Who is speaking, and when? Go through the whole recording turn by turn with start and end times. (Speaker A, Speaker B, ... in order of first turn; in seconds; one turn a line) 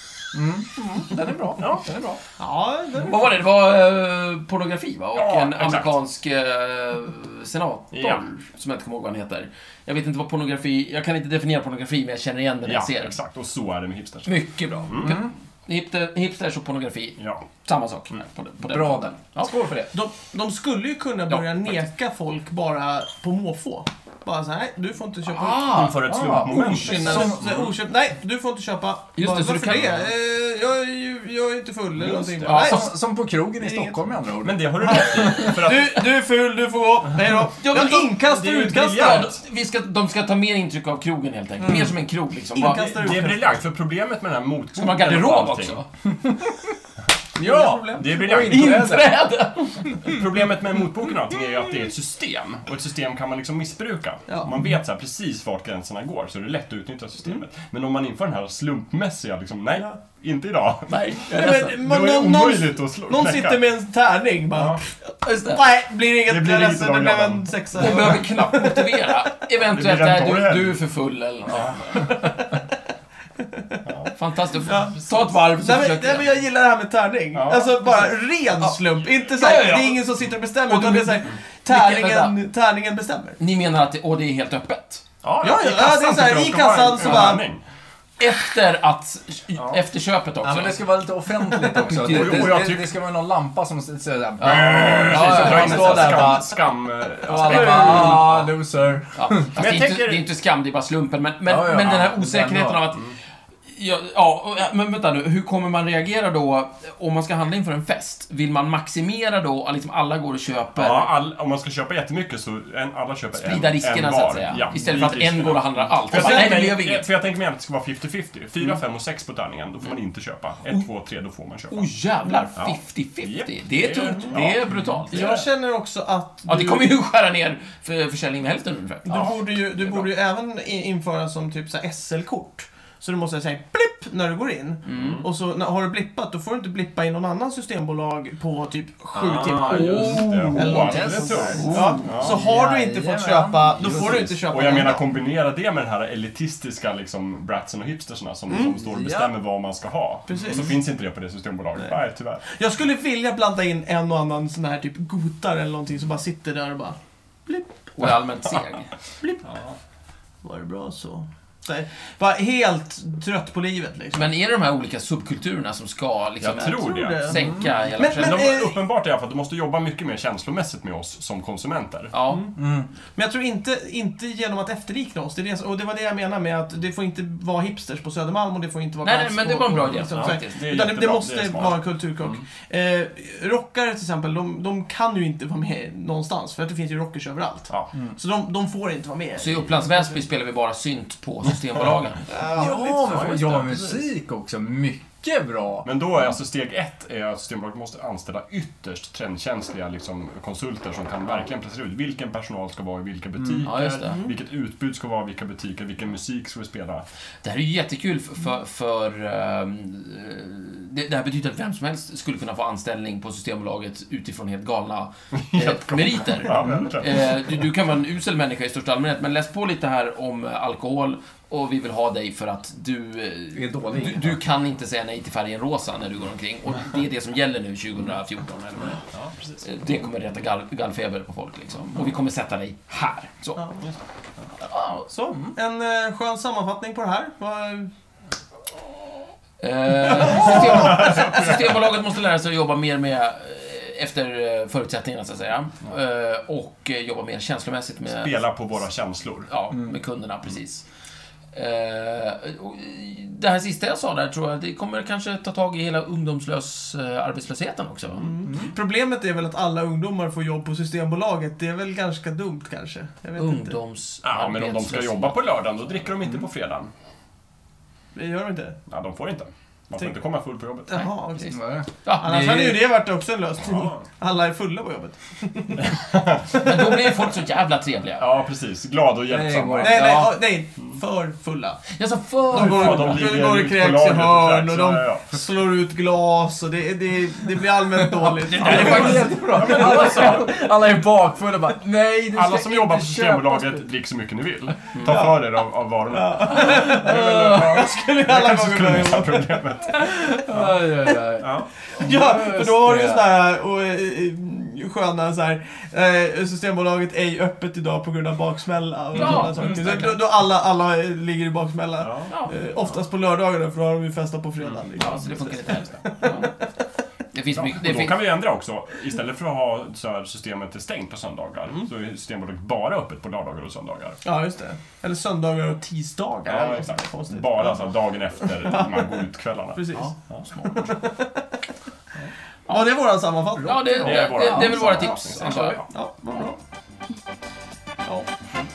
Speaker A: 0.3-2.2
Speaker B: 2.4-3.3
Speaker C: 3.0-13.2
Speaker D: 5.1-6.0
Speaker D: 7.9-8.2
Speaker D: 12.7-14.3
Speaker C: 14.3-19.9
Speaker D: 14.9-15.2
Speaker A: 15.0-15.3
Speaker D: 17.2-17.4
Speaker A: 18.6-19.2
Speaker B: 19.9-25.8
Speaker C: 21.3-21.9
Speaker C: 25.2-27.4
Speaker D: 25.7-27.7
Speaker A: 26.1-27.4
Speaker B: 26.8-32.9
Speaker C: 29.2-30.0
Speaker D: 29.7-30.0
Speaker D: 32.0-32.7
Speaker C: 32.5-32.9
Speaker A: 32.5-35.5
Speaker B: 33.6-34.0
Speaker D: 34.4-36.1
Speaker C: 34.9-35.5
Speaker B: 35.2-39.3
Speaker C: 37.6-38.2
Speaker D: 38.2-39.4
Speaker C: 38.9-43.2
Speaker B: 42.5-43.6
Speaker D: 43.0-45.8
Speaker C: 44.8-45.9
Speaker A: 46.1-46.7
Speaker A: 47.4-49.1
Speaker B: 47.4-48.3
Speaker D: 47.9-48.8
Speaker C: 48.3-50.1
Speaker D: 50.0-63.6
Speaker C: 60.9-61.8
Speaker B: 61.3-69.0
Speaker D: 64.5-64.8
Speaker C: 65.2-65.7
Speaker D: 66.2-68.2
Speaker C: 67.8-72.3
Speaker D: 69.6-70.8
Speaker B: 72.0-72.5
Speaker B: 73.4-73.8
Speaker D: 73.9-74.1
Speaker C: 74.1-76.3
Speaker B: 74.6-83.4
Speaker D: 77.3-78.0
Speaker C: 79.3-80.1
Speaker C: 80.7-82.4
Speaker C: 83.4-85.0
Speaker D: 85.2-87.6
Speaker B: 85.4-87.5
Speaker C: 88.2-90.9
Speaker D: 89.5-89.8
Speaker A: 90.4-96.5
Speaker C: 91.6-92.6
Speaker D: 91.8-92.9
Speaker C: 94.4-96.4
Speaker D: 94.4-98.4
Speaker A: 97.3-99.6
Speaker C: 97.4-98.5
Speaker C: 99.1-103.1
Speaker D: 99.5-100.3
Speaker A: 101.5-102.9
Speaker C: 103.7-111.1
Speaker D: 110.8-121.9
Speaker C: 113.4-117.1
Speaker B: 116.1-116.6
Speaker C: 121.7-125.3
Speaker D: 122.6-125.5
Speaker B: 125.1-126.9
Speaker C: 126.5-129.4
Speaker B: 129.1-145.1
Speaker D: 129.1-130.0
Speaker C: 134.9-135.2
Speaker D: 134.9-135.3
Speaker D: 139.1-142.4
Speaker C: 139.4-142.2
Speaker A: 139.8-144.7
Speaker D: 143.8-152.4
Speaker B: 148.5-148.8
Speaker A: 148.7-149.3
Speaker B: 150.3-150.8
Speaker B: 152.5-157.7
Speaker C: 157.9-158.9
Speaker B: 159.2-159.5
Speaker D: 159.5-159.8
Speaker B: 160.4-164.3
Speaker C: 164.1-168.5
Speaker D: 166.4-167.4
Speaker B: 166.6-167.4
Speaker B: 168.0-168.8
Speaker D: 168.1-172.1
Speaker C: 172.1-172.5
Speaker B: 172.3-172.5
Speaker A: 172.6-172.9
Speaker B: 173.2-190.1
Speaker C: 179.0-180.6
Speaker D: 180.0-182.4
Speaker C: 189.4-192.3
Speaker B: 192.3-193.6
Speaker A: 192.5-195.9
Speaker D: 193.0-194.0
Speaker D: 195.8-207.1
Speaker A: 203.4-203.7
Speaker C: 203.6-204.2
Speaker C: 207.4-229.0
Speaker D: 215.3-217.4
Speaker A: 223.5-224.4
Speaker D: 229.1-229.6
Speaker C: 229.6-233.6
Speaker B: 233.6-233.8
Speaker C: 234.6-235.1
Speaker B: 235.1-237.9
Speaker C: 239.6-248.4
Speaker B: 240.3-241.2
Speaker D: 240.3-241.8
Speaker D: 248.1-249.5
Speaker C: 249.5-250.8
Speaker A: 249.7-250.0
Speaker C: 251.5-258.3
Speaker B: 258.2-263.8
Speaker A: 258.5-258.8
Speaker C: 263.4-265.4
Speaker D: 264.2-266.9
Speaker B: 268.1-268.8
Speaker D: 268.9-270.9
Speaker B: 270.9-271.6
Speaker C: 270.9-272.7
Speaker A: 271.5-272.8
Speaker B: 272.2-275.9
Speaker D: 273.6-274.0
Speaker D: 275.8-276.8
Speaker C: 276.5-278.3
Speaker D: 278.2-280.1
Speaker A: 279.3-280.2
Speaker B: 279.8-281.8
Speaker C: 279.9-280.4
Speaker C: 281.9-283.2
Speaker D: 282.5-285.3
Speaker B: 282.5-290.4
Speaker A: 288.0-293.8
Speaker C: 288.5-290.3
Speaker D: 288.8-290.5
Speaker D: 292.3-300.7
Speaker B: 295.0-295.4
Speaker B: 296.1-300.4
Speaker A: 300.4-303.3
Speaker D: 301.4-301.7
Speaker B: 301.9-316.7
Speaker C: 309.1-310.2
Speaker A: 309.2-309.7
Speaker D: 312.0-312.3
Speaker C: 312.3-312.6
Speaker C: 315.0-316.5
Speaker C: 317.3-318.3
Speaker D: 317.5-324.2
Speaker B: 324.2-329.1
Speaker D: 326.5-330.4
Speaker B: 329.8-331.6
Speaker C: 329.9-330.9
Speaker B: 332.7-334.2
Speaker C: 333.6-335.8
Speaker A: 333.8-335.8
Speaker D: 333.9-335.8
Speaker B: 335.9-336.6
Speaker B: 338.0-338.3